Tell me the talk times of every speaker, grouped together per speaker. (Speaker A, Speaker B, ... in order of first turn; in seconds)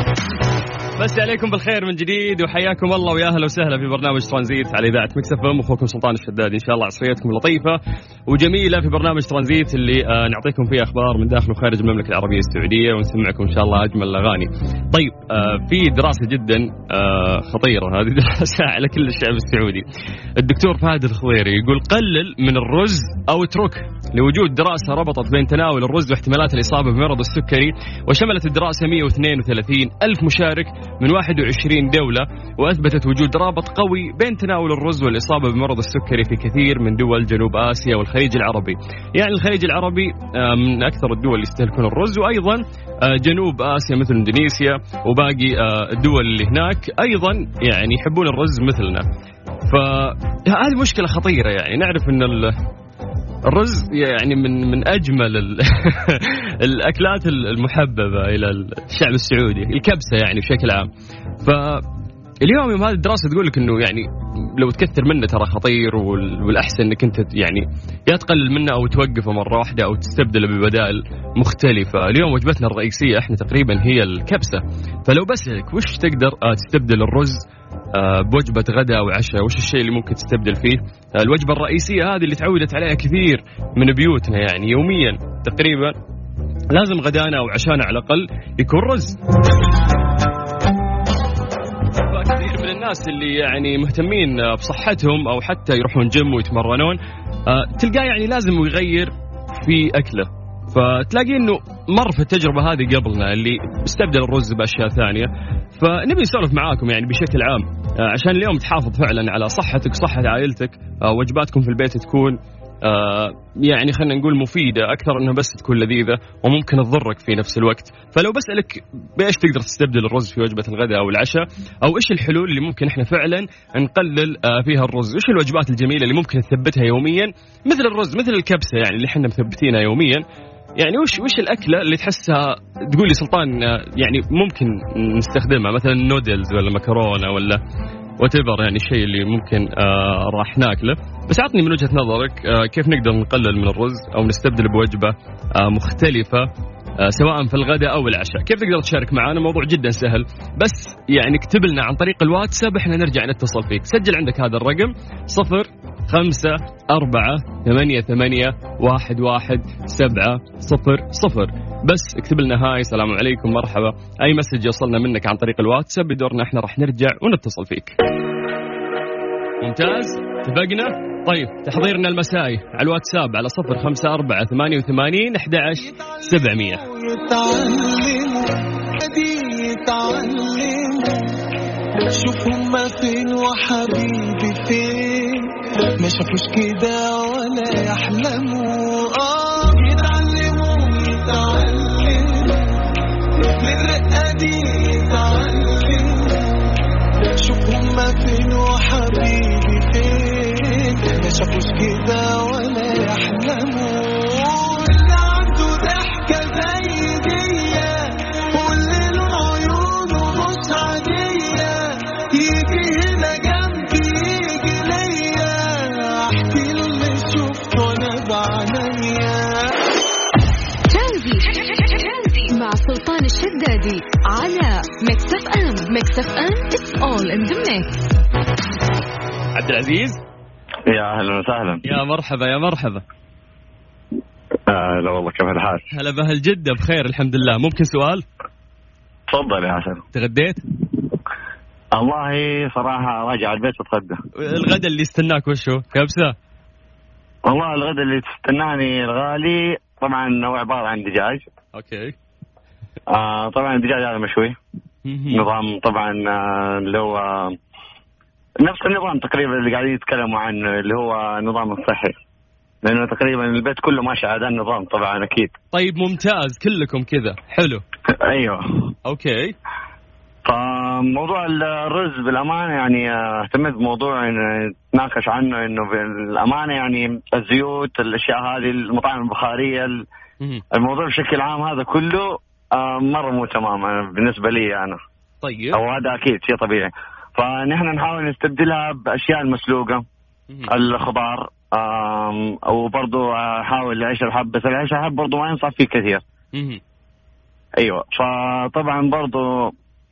Speaker A: 1.0-19.8, 20.4-49.0, 49.7-52.5, 53.5-60.9, 61.4-61.8, 62.4-85.9, 86.7-89.2, 92.0-130.2, 130.8-137.6, 138.2-146.5, 147.0-167.9, 169.6-176.8, 229.5-230.2, 231.8-233.0, 235.9-238.2, 240.1-240.6, 244.4-246.3, 251.7-252.1, 255.0-255.5, 265.7-267.8, 269.1-269.5, 285.4-285.8, 296.5-296.8
Speaker B: 175.8-181.3, 182.1-192.8, 193.6-196.6, 197.4-219.6
Speaker C: 220.9-227.9
Speaker D: 230.9-231.8, 234.7-235.8, 239.3-240.0, 241.9-244.2, 247.4-251.4, 253.1-254.6, 255.3-257.6, 258.6-262.1, 262.8-265.5, 268.1-268.9, 270.4-280.0, 280.7-285.0, 285.7-290.0, 290.7-296.2, 297.8-299.7